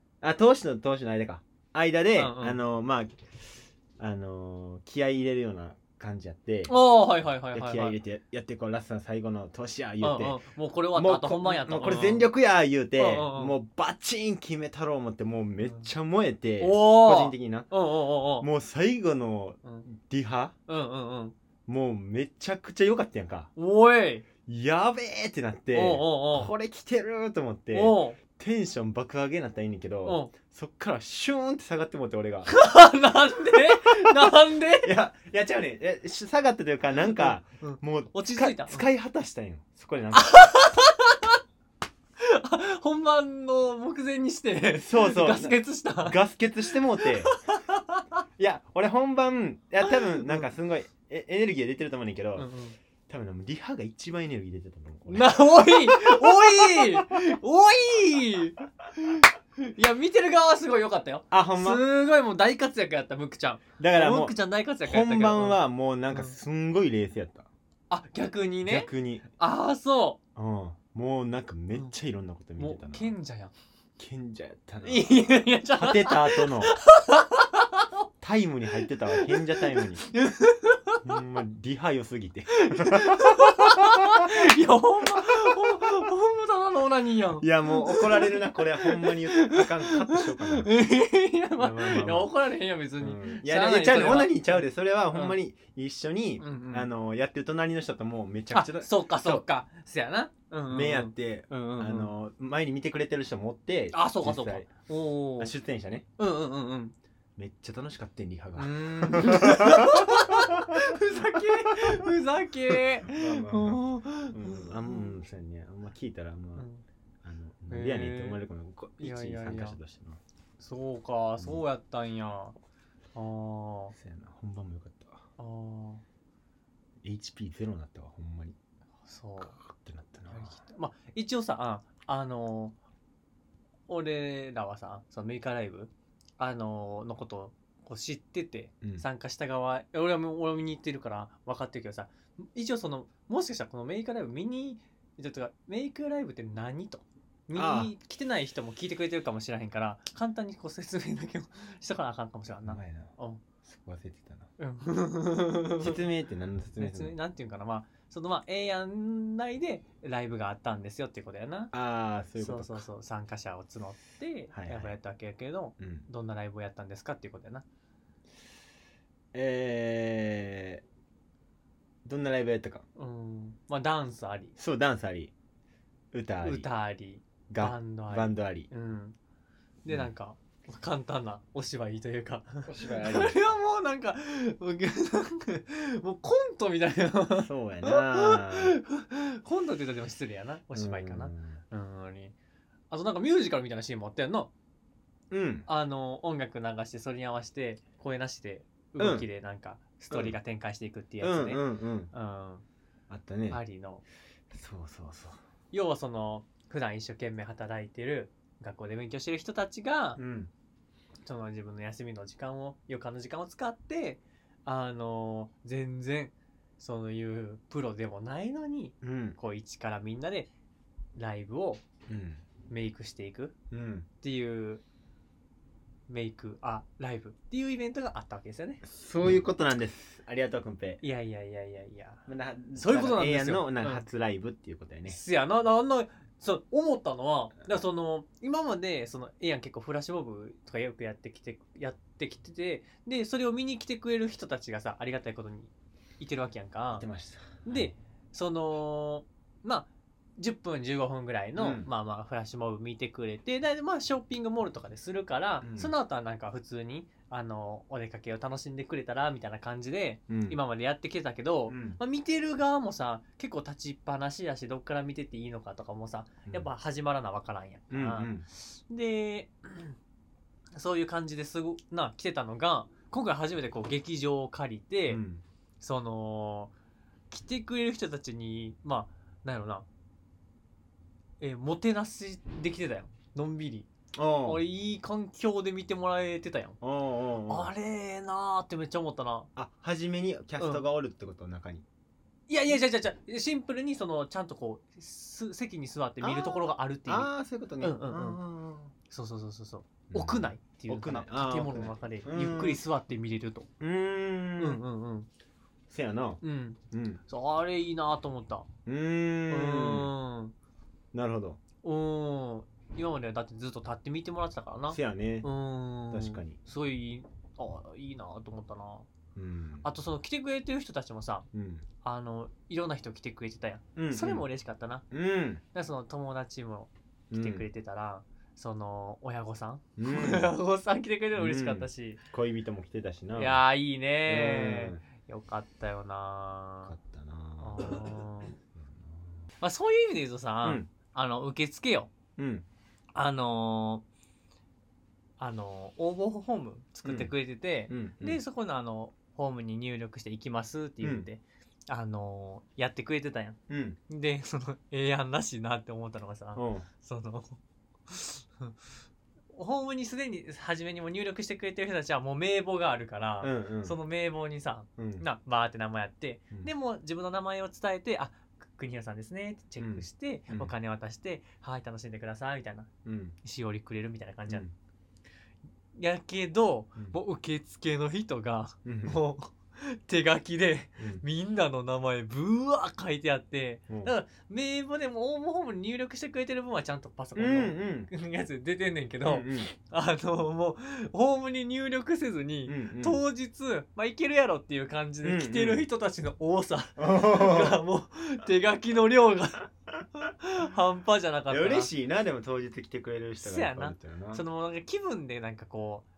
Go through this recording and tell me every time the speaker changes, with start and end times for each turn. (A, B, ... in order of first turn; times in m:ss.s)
0:00.2-0:06.8 A
0:02.2-0:02.6 B
0:06.7-0:08.0 B
0:07.5-0:10.4 A
0:10.0-0:12.3 B
0:10.9-0:17.7 A
0:13.0-0:13.6 B
0:16.6-0:18.5 B
0:18.4-0:20.6 A
0:20.7-0:21.4 B
0:21.7-0:23.5 A
0:23.6-0:24.3 B
0:24.4-0:32.5 A
0:25.7-0:26.5 B
0:27.7-0:28.2 B
0:30.0-0:30.3 B
0:32.5-0:34.9 B
0:33.9-0:40.4 A
0:37.0-0:38.8 B
0:40.1-0:41.4 B
0:42.2-0:46.2 B
0:44.8-0:47.4 A
0:46.7-0:48.0 B
0:48.4-0:52.5 A
0:49.8-0:50.5 B
0:52.4-0:52.8 B
0:53.1-0:57.0 A
0:55.1-1:06.4 B
1:01.3-1:01.8 A
1:03.8-1:07.5 A
1:07.9-1:10.2 B
1:08.6-1:09.3 A
1:10.4-1:13.1 A
1:12.6-1:13.5 B
1:14.0-1:16.8 A
1:14.8-1:17.9 B
1:18.2-1:20.1 A
1:19.1-1:21.0 B
1:21.0-1:24.3 A
1:22.6-1:35.4 B
1:27.4-1:30.7 A
1:31.6-1:32.3 A
1:33.0-1:39.4 A
1:36.4-1:36.9 B
1:38.5-1:42.1 B
1:40.7-1:44.7 A
1:43.9-1:45.5 B
1:45.4-1:46.1 A
1:46.2-1:47.0 B
1:47.4-1:51.0 A
1:48.6-1:55.2 B
1:51.7-1:52.0 A
1:52.7-1:56.7 A
1:56.6-1:56.8 B
1:57.2-2:00.2 A
1:57.7-1:58.4 B
1:59.0-1:59.8 B
2:00.6-2:02.6 B
2:01.4-2:01.6 A
2:03.1-2:04.0 B
2:03.9-2:05.2 A
2:05.4-2:06.0 B
2:07.0-2:08.6 A
2:09.0-2:09.6 B
2:09.4-2:10.6 A
2:10.3-2:12.8 B
2:13.9-2:33.4 B
2:27.5-2:27.9 A
2:32.6-2:34.5 A
2:34.6-2:36.0 B
2:35.8-2:37.1 A
2:36.8-2:41.7 B
2:41.7-2:42.8 A
2:42.4-2:47.6 B
2:44.5-2:44.9 A
2:45.8-2:46.1 A
2:49.3-2:50.8 A
2:52.0-2:52.8 A
2:53.0-2:54.5 B
2:54.6-2:55.3 A
2:56.1-2:56.7 A
2:56.4-2:59.2 B
2:57.5-2:58.7 A
2:59.8-3:12.3 B
3:02.6-3:03.4 A
3:07.4-3:08.8 A
3:10.7-3:11.6 A
3:12.9-3:14.5 B
3:15.3-3:15.7 A
3:15.7-3:22.6 B
3:19.0-3:19.3 A
3:20.1-3:20.4 A
3:21.2-3:22.1 A
3:23.1-3:23.6 A
3:23.5-3:24.0 B
3:24.5-3:25.4 A
3:25.7-3:30.2 B
3:30.2-3:30.5 A
3:31.2-3:40.5 B
3:39.0-3:39.4 A
3:41.2-3:41.8 B
3:42.1-3:42.4 A
3:42.7-3:43.5 B
3:43.7-3:44.1 A
3:44.2-3:44.8 B
3:46.1-3:48.8 B
3:48.8-3:51.0 A
3:51.0-3:52.2 B
3:52.3-3:55.2 A
3:52.8-3:54.0 B
3:55.1-4:07.1 B
4:06.9-4:07.9 A
4:07.6-4:30.0 B
4:11.6-4:11.9 A
4:15.6-4:15.9 A
4:20.3-4:20.6 A
4:21.7-4:22.0 A
4:27.9-4:28.4 A
4:30.7-4:35.2 B
4:35.1-4:35.4 A
4:35.8-4:36.7 B
4:37.3-4:39.9 B
4:41.4-4:43.9 B
4:44.1-4:44.6 A
4:44.4-4:46.8 B
4:46.8-4:47.7 A
4:47.5-4:49.5 B
4:49.6-4:51.8 A
4:52.5-4:57.3 B
4:56.2-4:58.9 A
4:57.8-4:58.4 B
4:59.1-5:03.7 B
5:00.1-5:02.8 A
5:03.8-5:04.8 A
5:04.6-5:05.3 B
5:05.9-5:06.4 A
5:06.4-5:08.7 B
5:06.9-5:07.2 A
5:08.8-5:10.1 A
5:09.5-5:10.6 B
5:11.1-5:11.6 A
5:11.8-5:19.1 B
5:14.9-5:15.5 A
5:16.1-5:16.6 A
5:19.4-5:19.9 A
5:19.8-5:21.5 B
5:21.5-5:21.9 A
5:22.0-5:25.1 B
5:24.0-5:24.5 A
5:25.1-5:25.6 A
5:25.7-5:32.2 B
5:27.3-5:27.7 A
5:30.0-5:30.5 A
5:31.4-5:33.6 A
5:33.3-5:36.9 B
5:34.3-5:35.0 A
5:36.8-5:39.4 A
5:37.6-5:38.6 B
5:39.6-5:42.1 B
5:40.6-5:40.9 A
5:42.4-5:42.6 A
5:43.2-5:44.0 B
5:45.4-5:53.6 B
5:47.0-5:47.3 A
5:47.9-5:48.4 A
5:51.0-5:51.3 A
5:53.7-5:54.0 A
5:54.1-5:58.8 B
5:56.6-5:56.9 A
5:59.5-6:12.9 B
6:03.4-6:04.0 A
6:05.0-6:05.3 A
6:09.8-6:10.7 A
6:13.0-6:13.4 A
6:13.4-6:14.7 B
6:14.5-6:14.7 A
6:16.0-6:41.9 B
6:18.8-6:19.2 A
6:23.9-6:24.1 A
6:27.4-6:28.1 A
6:29.2-6:29.7 A
6:32.7-6:33.2 A
6:35.2-6:35.9 A
6:37.0-6:37.8 A
6:41.5-6:44.4 A
6:43.4-6:46.1 B